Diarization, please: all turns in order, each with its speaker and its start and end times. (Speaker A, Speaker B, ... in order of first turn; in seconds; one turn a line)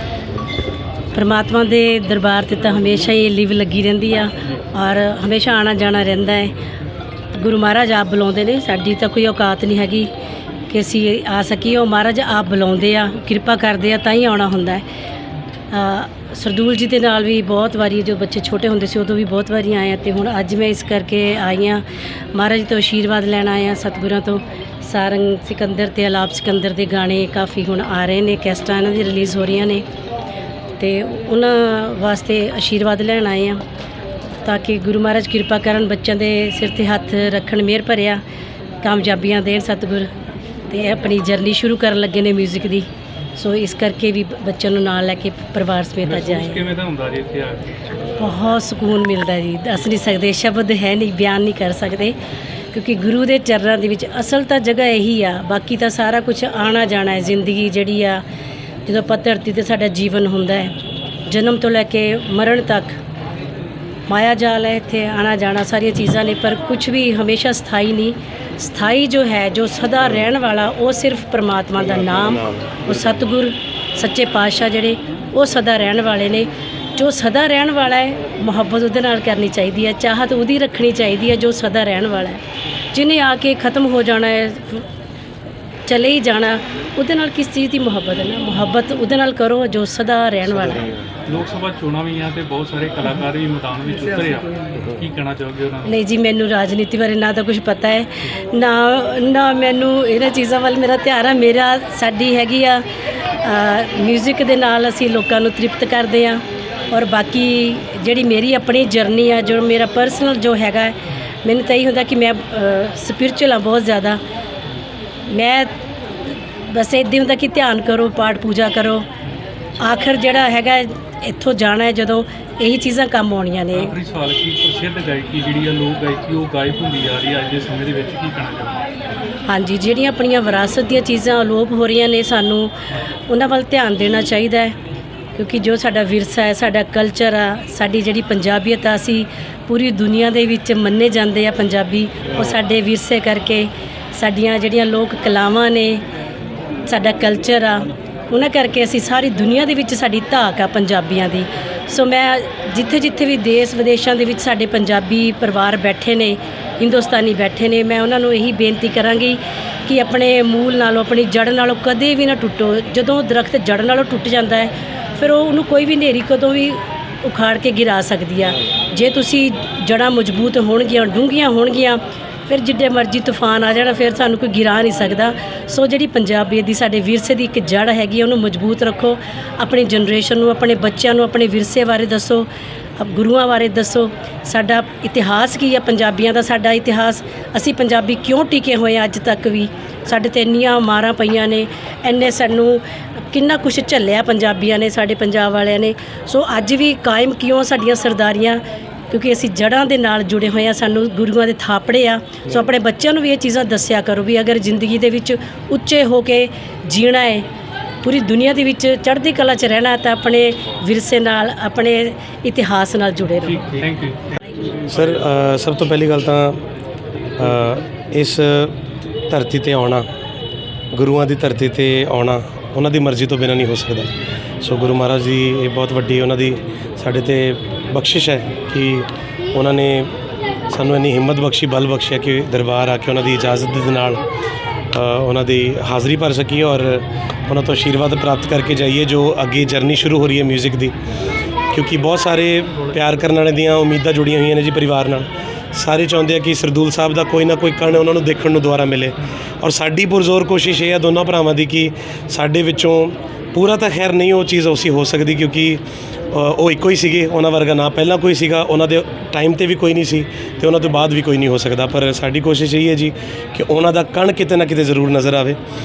Speaker A: 1.1-6.5
Speaker A: 7.3-10.1
Speaker A: 10.7-14.8
Speaker A: 15.7-29.8
Speaker A: 30.8-33.6
Speaker A: 34.4-38.2
Speaker A: 38.8-40.1
Speaker A: 40.7-46.7
Speaker B: 46.0-47.8
Speaker A: 48.2-52.1
Speaker A: 52.7-58.2
Speaker A: 58.9-60.7
Speaker A: 61.3-63.0
Speaker A: 64.1-82.4
Speaker C: 71.8-73.2
Speaker A: 82.9-84.8
Speaker A: 85.9-90.9
Speaker B: 91.3-96.0
Speaker A: 95.9-102.8
Speaker A: 103.4-114.2
Speaker A: 115.3-115.7
Speaker A: 116.7-119.0
Speaker A: 119.8-123.9
Speaker B: 123.7-128.8
Speaker A: 129.5-132.7
Speaker A: 133.3-134.8
Speaker A: 135.4-146.0
Speaker A: 146.8-207.4
Speaker A: 208.0-213.6
Speaker B: 213.4-214.2
Speaker C: 214.9-216.6
Speaker C: 217.4-218.8
Speaker C: 219.3-220.1
Speaker C: 220.9-230.2
Speaker C: 230.7-234.2
Speaker C: 234.9-240.9
Speaker C: 241.7-265.6
Speaker B: 242.7-242.9